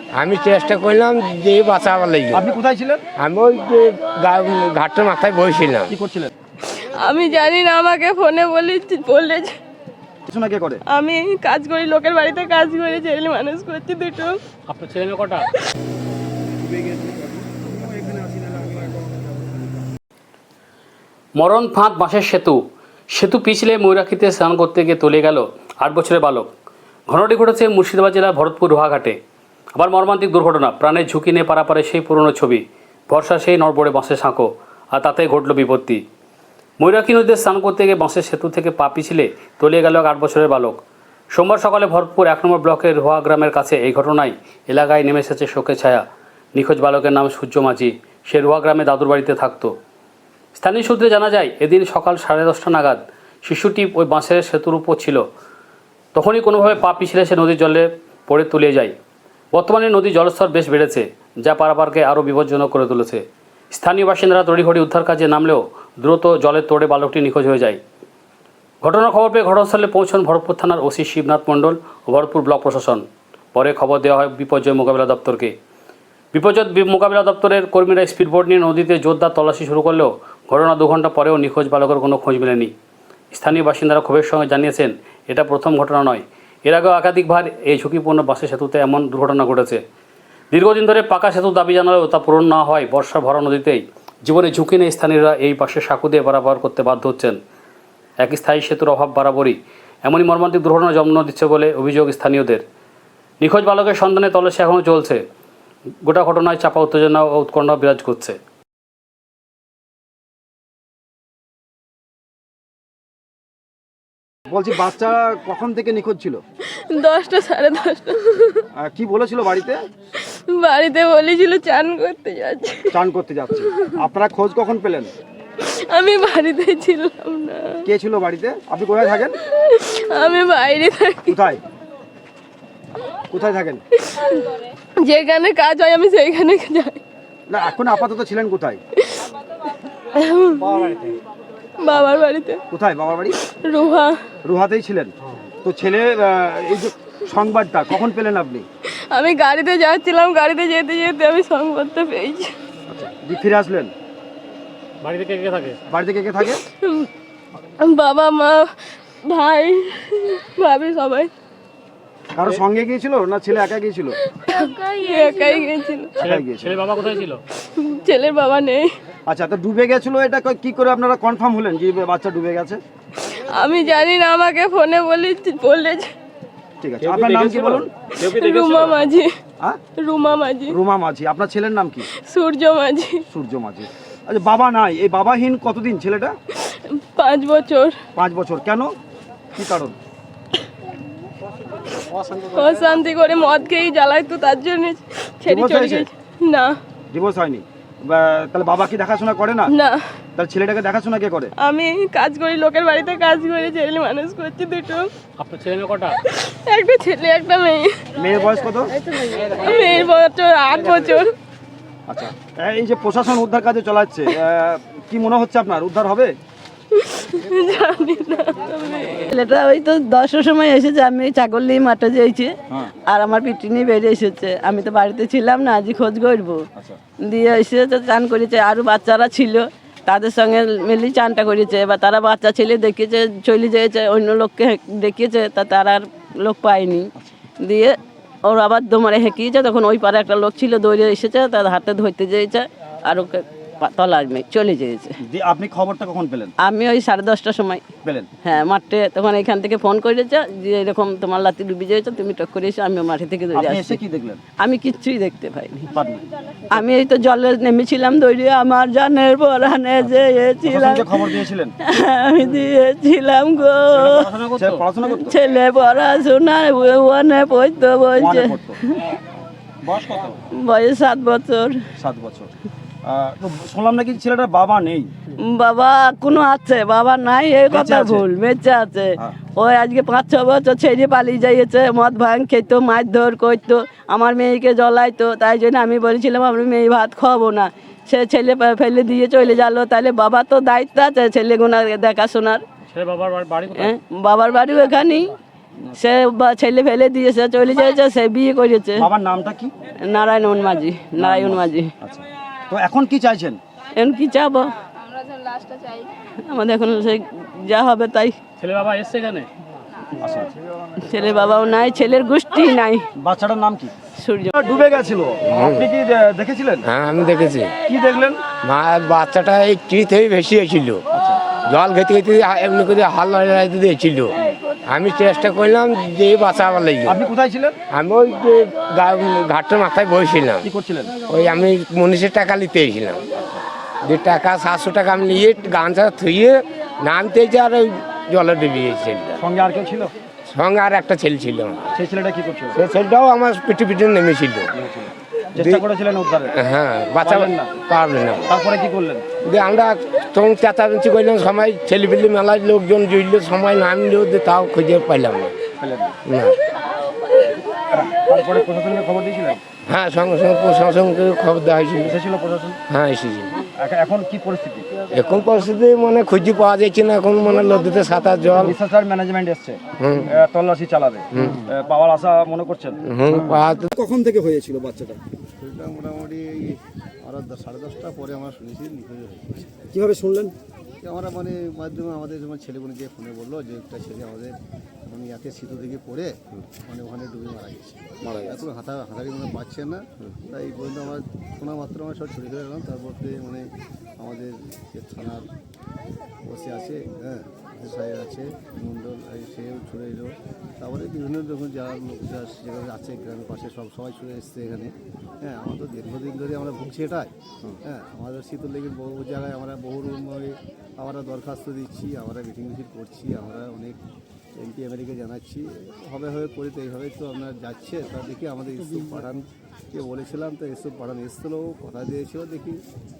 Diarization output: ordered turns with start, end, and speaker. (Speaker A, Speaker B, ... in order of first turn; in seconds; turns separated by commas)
Speaker A: 0.1-2.5, Speaker B: 2.3-3.0, Speaker A: 3.2-5.9, Speaker B: 5.9-6.3, Speaker C: 6.6-9.5, Speaker B: 10.3-10.8, Speaker C: 10.9-14.4, Speaker D: 14.7-15.4, Speaker B: 16.6-19.2, Speaker D: 21.4-22.6, Speaker D: 23.1-26.5, Speaker D: 27.1-29.2, Speaker D: 29.8-36.0, Speaker D: 36.8-40.8, Speaker D: 41.3-49.7, Speaker D: 50.5-55.2, Speaker D: 56.1-58.9, Speaker D: 59.5-67.8, Speaker D: 68.8-75.5, Speaker D: 76.3-82.7, Speaker D: 83.3-89.8, Speaker D: 90.5-97.3, Speaker D: 98.2-102.6, Speaker D: 103.4-105.2, Speaker D: 106.0-108.4, Speaker B: 114.5-116.4, Speaker C: 116.7-118.6, Speaker B: 118.7-119.8, Speaker C: 120.2-123.0, Speaker B: 122.9-125.1, Speaker C: 125.6-127.9, Speaker B: 127.8-129.4, Speaker C: 129.5-131.4, Speaker B: 131.3-131.6, Speaker B: 133.3-133.8, Speaker C: 134.0-137.0, Speaker B: 137.5-138.8, Speaker C: 140.1-141.1, Speaker C: 141.8-142.6, Speaker B: 142.7-143.4, Speaker C: 143.4-144.3, Speaker B: 144.4-148.7, Speaker C: 148.9-152.5, Speaker B: 152.9-153.9, Speaker D: 155.0-155.8, Speaker B: 155.9-156.6, Speaker C: 156.6-157.1, Speaker C: 157.8-161.3, Speaker B: 162.3-164.2, Speaker C: 164.3-166.3, Speaker B: 166.2-166.9, Speaker D: 166.2-167.4, Speaker C: 167.6-168.9, Speaker B: 169.3-172.8, Speaker C: 173.2-176.1, Speaker B: 176.8-177.9, Speaker D: 177.0-178.9, Speaker C: 178.1-179.3, Speaker C: 179.9-180.8, Speaker B: 180.7-182.1, Speaker C: 182.1-183.2, Speaker B: 183.3-186.4, Speaker C: 186.6-188.0, Speaker B: 188.2-188.9, Speaker B: 189.6-190.0, Speaker C: 191.9-196.8, Speaker B: 195.4-196.1, Speaker B: 197.1-199.7, Speaker C: 199.7-200.1, Speaker B: 200.4-201.5, Speaker C: 201.6-205.1, Speaker D: 205.4-206.1, Speaker C: 206.2-208.0, Speaker B: 208.2-208.9, Speaker C: 209.0-211.3, Speaker B: 212.1-216.3, Speaker C: 216.9-219.3, Speaker E: 219.3-222.5, Speaker E: 223.1-226.7, Speaker E: 227.2-245.1, Speaker B: 245.2-246.5, Speaker E: 246.6-247.9, Speaker B: 248.0-248.3, Speaker E: 248.4-254.0, Speaker B: 253.5-254.4, Speaker E: 254.6-255.9, Speaker B: 255.9-256.2, Speaker E: 256.7-264.3, Speaker B: 260.6-261.7, Speaker B: 263.9-265.4, Speaker E: 265.1-269.1, Speaker B: 268.2-268.8, Speaker B: 269.8-270.4, Speaker E: 270.6-271.9, Speaker B: 271.9-272.5, Speaker B: 273.0-275.1, Speaker E: 275.5-292.6, Speaker B: 277.7-278.2, Speaker D: 292.9-293.9, Speaker E: 293.7-295.3, Speaker E: 296.0-299.1, Speaker B: 299.0-299.7, Speaker E: 300.1-301.9, Speaker B: 301.2-303.6, Speaker E: 303.9-304.7, Speaker C: 305.5-305.8, Speaker E: 306.4-308.4, Speaker D: 308.6-309.5, Speaker B: 310.2-310.5, Speaker E: 311.1-313.1, Speaker B: 313.2-313.9, Speaker E: 314.2-314.5, Speaker B: 314.6-316.9, Speaker A: 315.4-315.9, Speaker A: 316.8-317.7, Speaker B: 317.9-318.4, Speaker A: 318.6-321.0, Speaker B: 321.1-321.4, Speaker A: 321.6-327.2, Speaker B: 327.1-327.8, Speaker A: 327.9-330.7, Speaker B: 330.6-331.1, Speaker A: 331.3-333.3, Speaker B: 333.4-333.6, Speaker A: 334.0-339.4, Speaker B: 339.4-340.1, Speaker A: 340.5-341.9, Speaker B: 341.9-342.8, Speaker A: 342.7-344.7, Speaker B: 344.7-346.6, Speaker A: 345.6-345.8, Speaker A: 346.6-348.5, Speaker B: 347.2-347.8, Speaker B: 348.5-349.3, Speaker A: 349.4-355.6, Speaker B: 355.8-356.2, Speaker A: 356.2-356.6, Speaker B: 357.9-359.6, Speaker A: 359.9-362.2, Speaker B: 362.0-362.8, Speaker A: 362.9-363.6, Speaker B: 363.7-364.9, Speaker A: 365.1-368.8, Speaker B: 368.6-375.2, Speaker A: 370.0-370.3, Speaker A: 371.4-371.7, Speaker A: 373.1-373.9, Speaker F: 375.6-379.9, Speaker B: 379.9-380.5, Speaker F: 381.0-395.5, Speaker B: 388.2-388.6, Speaker F: 396.4-407.3, Speaker F: 407.8-414.0, Speaker F: 414.6-422.9